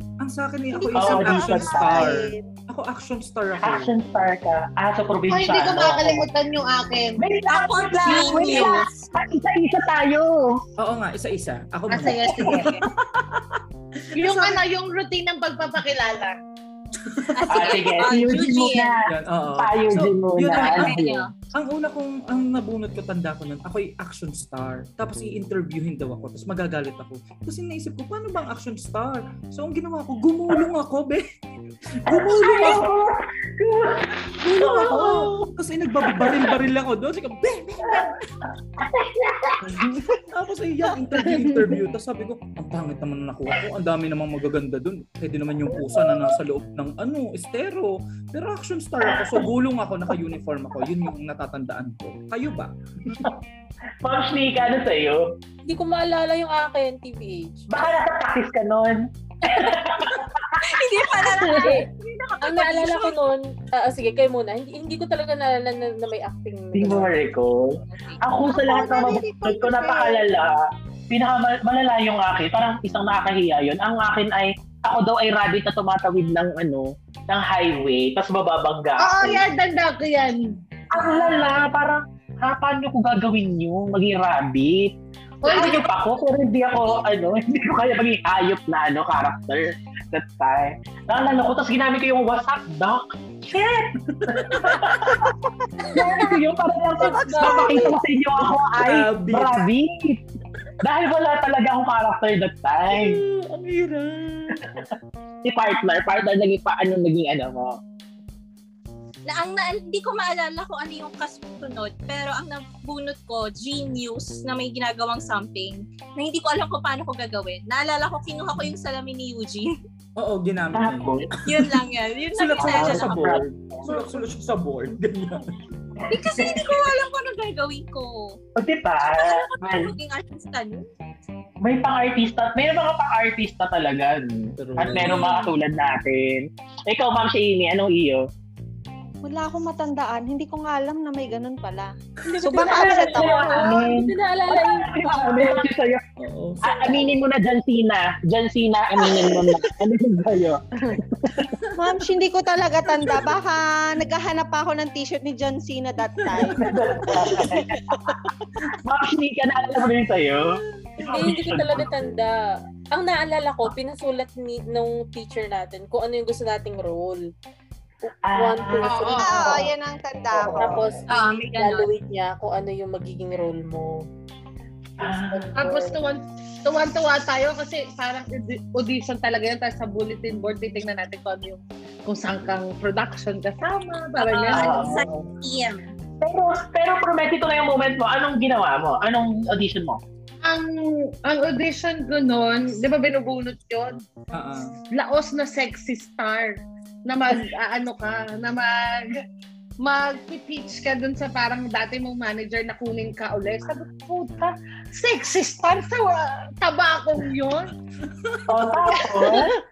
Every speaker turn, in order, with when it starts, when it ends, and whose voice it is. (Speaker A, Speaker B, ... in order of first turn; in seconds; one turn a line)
Speaker A: 0.2-3.9
Speaker B: 0.7-2.5
Speaker C: 0.9-2.2
Speaker C: 3.6-6.3
Speaker D: 5.3-7.2
Speaker C: 7.2-10.6
Speaker E: 7.5-8.9
Speaker D: 8.0-8.5
Speaker B: 8.1-8.9
Speaker A: 10.8-14.6
Speaker D: 11.9-12.8
Speaker D: 14.2-16.4
Speaker A: 17.0-17.9
Speaker E: 17.3-19.0
Speaker C: 17.5-21.3
Speaker A: 19.1-31.2
Speaker E: 20.5-21.3
Speaker A: 32.0-32.9
Speaker C: 32.1-35.4
Speaker A: 34.4-38.2
Speaker C: 36.0-36.5
Speaker C: 37.8-38.1
Speaker C: 38.8-39.8
Speaker A: 39.6-53.3
Speaker C: 49.1-49.5
Speaker C: 54.0-55.2
Speaker F: 55.7-57.7
Speaker C: 57.7-61.7
Speaker E: 60.6-63.2
Speaker F: 61.2-61.9
Speaker F: 62.4-67.1
Speaker C: 66.7-70.6
Speaker E: 67.9-68.2
Speaker B: 68.4-70.2
Speaker C: 71.1-79.4
Speaker D: 79.0-80.4
Speaker C: 80.9-95.3
Speaker D: 85.4-85.8
Speaker A: 94.1-94.9
Speaker C: 95.8-100.2
Speaker F: 95.9-96.2
Speaker F: 97.0-98.0
Speaker B: 97.3-97.9
Speaker A: 98.8-99.6
Speaker C: 100.8-103.2
Speaker A: 102.9-104.6
Speaker C: 105.4-107.8
Speaker E: 109.3-119.7
Speaker A: 120.2-121.8
Speaker C: 120.7-121.3
Speaker E: 121.5-123.2
Speaker A: 122.3-125.5
Speaker C: 122.6-123.9
Speaker C: 126.0-126.8
Speaker E: 126.1-128.4
Speaker C: 128.6-129.9
Speaker E: 129.1-130.8
Speaker C: 131.6-138.3
Speaker A: 134.6-135.4
Speaker E: 134.9-135.5
Speaker B: 139.2-143.7
Speaker F: 142.3-145.7
Speaker C: 142.6-146.1
Speaker A: 146.2-147.0
Speaker C: 146.6-151.5
Speaker A: 151.5-151.9
Speaker B: 151.8-158.2
Speaker A: 156.2-157.2
Speaker C: 156.4-158.2
Speaker C: 158.8-161.9
Speaker A: 161.0-161.8
Speaker F: 161.0-162.3
Speaker F: 162.9-167.3
Speaker F: 168.1-169.7
Speaker C: 168.2-169.5
Speaker D: 168.8-169.6
Speaker B: 169.2-170.8
Speaker C: 170.4-170.8
Speaker F: 170.4-174.1
Speaker E: 171.1-171.9
Speaker C: 175.0-175.5
Speaker F: 175.0-176.0
Speaker D: 175.6-184.9
Speaker E: 184.2-185.9
Speaker C: 184.5-185.3
Speaker C: 186.2-190.0
Speaker D: 190.4-194.1
Speaker A: 194.3-194.8
Speaker D: 194.9-199.2
Speaker D: 199.8-207.7
Speaker A: 208.0-208.5
Speaker C: 208.5-209.6
Speaker D: 209.0-209.6